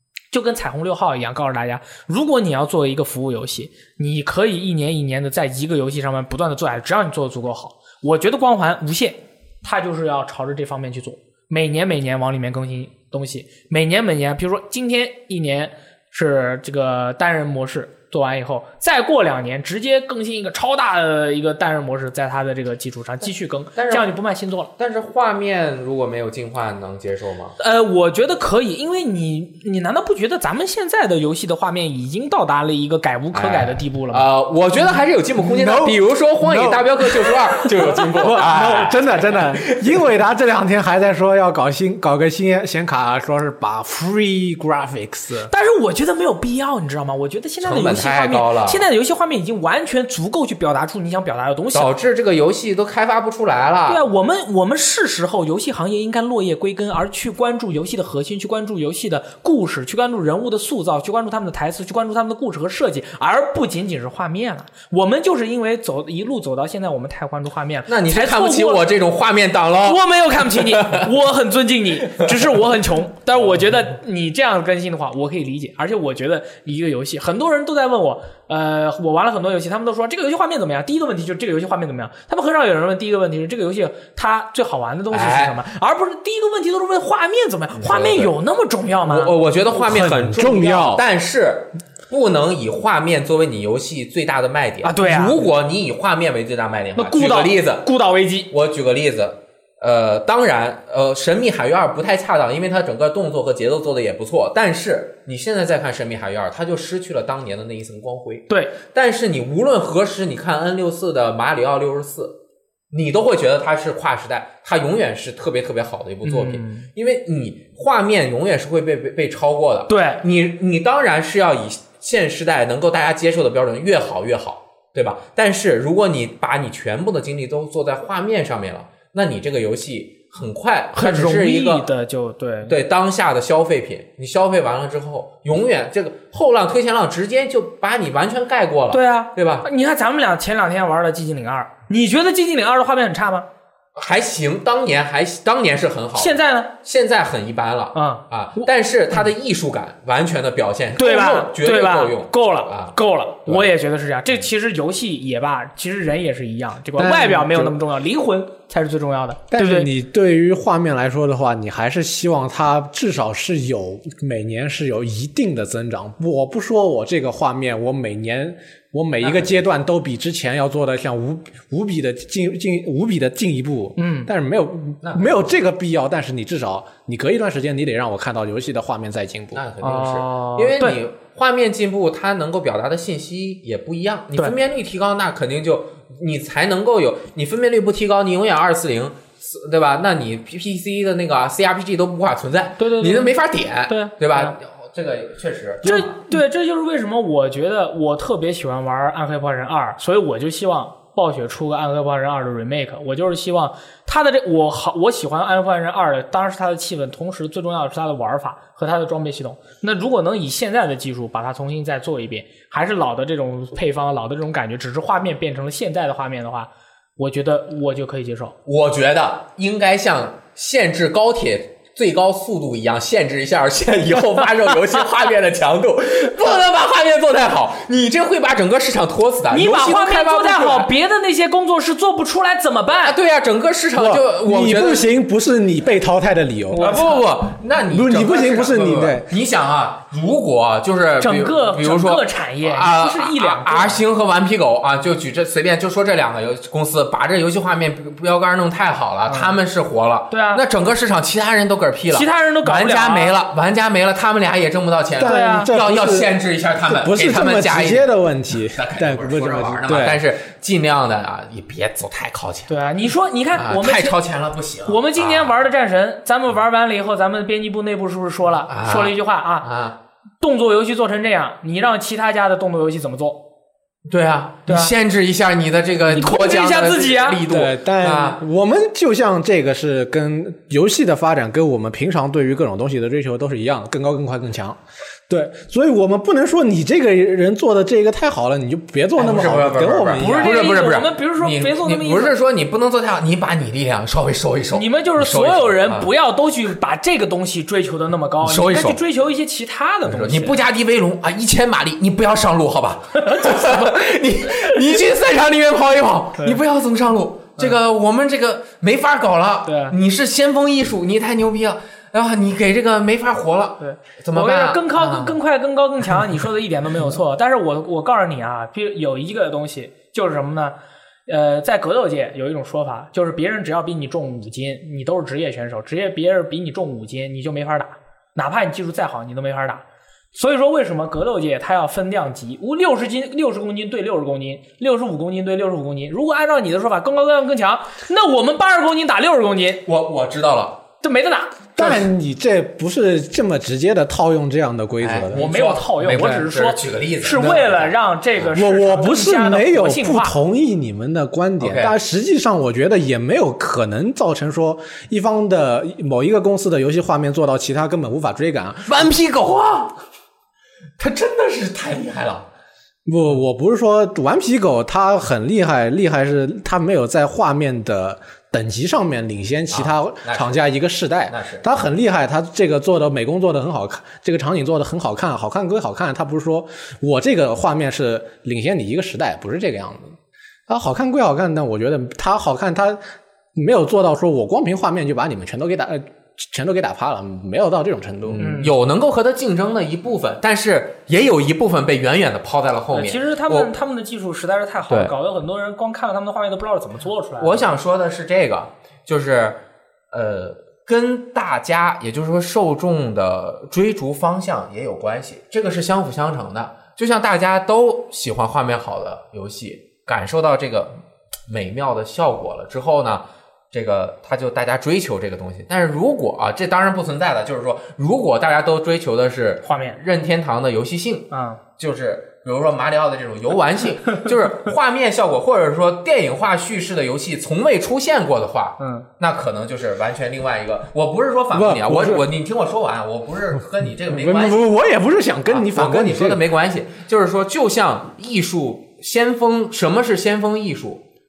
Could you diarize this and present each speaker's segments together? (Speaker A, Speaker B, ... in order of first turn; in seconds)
Speaker A: 0.3-24.7, 27.6-34.2, 45.5-51.9, 53.9-68.9, 69.8-89.3, 94.8-95.4, 97.0-98.5, 108.5-108.8, 116.2-116.9, 119.9-120.2, 130.9-132.8, 138.9-143.5, 146.2-146.7, 147.9-148.7, 151.0-159.9, 174.0-174.3, 179.8-181.0, 192.8-193.3, 193.9-194.5, 195.8-218.6, 229.5-233.2, 236.7-237.2, 241.2-244.0, 249.3-249.5, 250.3-250.6, 252.1-253.3, 255.2-255.7, 262.7-264.2, 264.9-269.7, 270.4-273.4, 274.7-274.9, 276.1-277.4, 290.2-292.3, 294.7-300.6, 303.2-304.0, 309.6-309.9, 313.8-329.8, 330.3-339.8, 341.0-341.6, 345.3-350.4, 388.4-388.7, 392.9-397.6, 419.6-420.0, 421.3-421.6, 428.8-429.1
Speaker B: 23.8-24.1, 24.8-27.6, 33.3-39.9, 47.6-48.8, 51.7-54.0, 67.9-71.1, 85.1-85.6, 87.8-88.3, 89.0-97.9, 98.5-112.3, 112.9-131.9, 132.7-139.7, 143.9-153.7, 169.2-169.5, 175.0-175.5, 179.5-196.1, 218.7-230.9, 233.0-235.1, 236.8-262.7, 263.5-265.5, 268.7-270.0, 274.1-278.4, 289.2-296.1, 298.4-299.0, 300.0-315.4, 339.9-340.8, 341.8-342.1, 345.0-347.9, 351.6-351.9, 358.8-360.0, 361.0-362.5, 369.7-370.7, 371.3-371.7, 388.2-393.7, 394.9-395.1, 397.4-410.9, 411.5-434.6, 435.5-441.0
Speaker C: 35.4-45.5, 89.7-91.0, 157.0-157.8, 159.5-179.6, 234.0-237.0, 237.9-239.3, 255.2-256.3, 256.9-260.2, 277.4-290.6, 341.8-345.4, 347.4-347.6, 348.5-359.1, 363.1-380.2, 380.7-383.0, 383.5-388.6, 431.5-432.2, 434.1-436.4